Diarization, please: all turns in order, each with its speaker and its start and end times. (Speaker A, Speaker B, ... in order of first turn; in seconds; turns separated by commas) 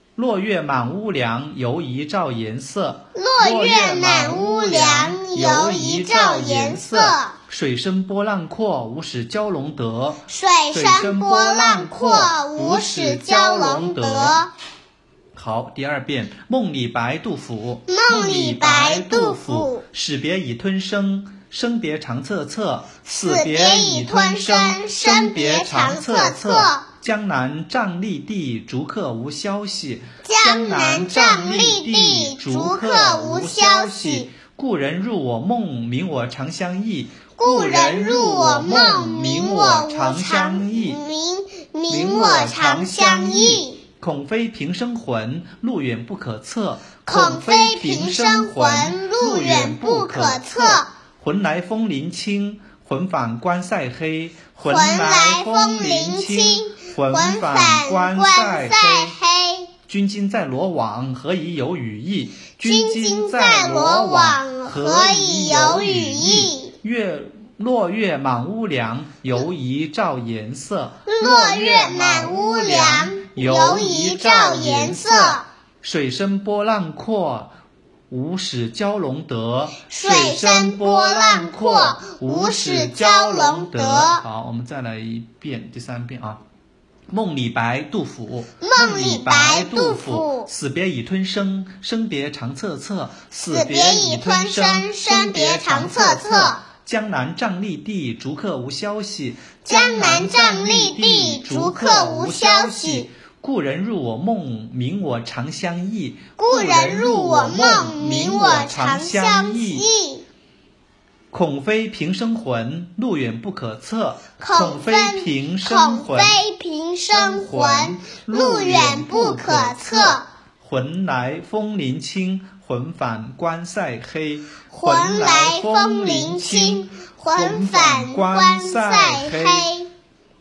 Speaker A: 0.1-14.4, Speaker B: 3.1-7.4, Speaker B: 10.3-14.5, Speaker A: 15.3-41.0, Speaker B: 17.9-19.8, Speaker B: 23.1-26.8, Speaker B: 30.2-34.3, Speaker B: 37.4-43.8, Speaker A: 41.9-59.1, Speaker B: 47.0-50.9, Speaker B: 54.6-59.7, Speaker A: 59.9-77.5, Speaker B: 62.6-66.7, Speaker B: 71.0-75.5, Speaker A: 78.1-86.4, Speaker B: 79.9-84.2, Speaker A: 87.1-109.9, Speaker B: 88.6-90.5, Speaker B: 93.4-96.6, Speaker B: 99.6-103.1, Speaker B: 106.4-110.2, Speaker A: 111.3-116.4, Speaker B: 114.4-120.2, Speaker A: 117.1-129.7, Speaker B: 124.7-129.9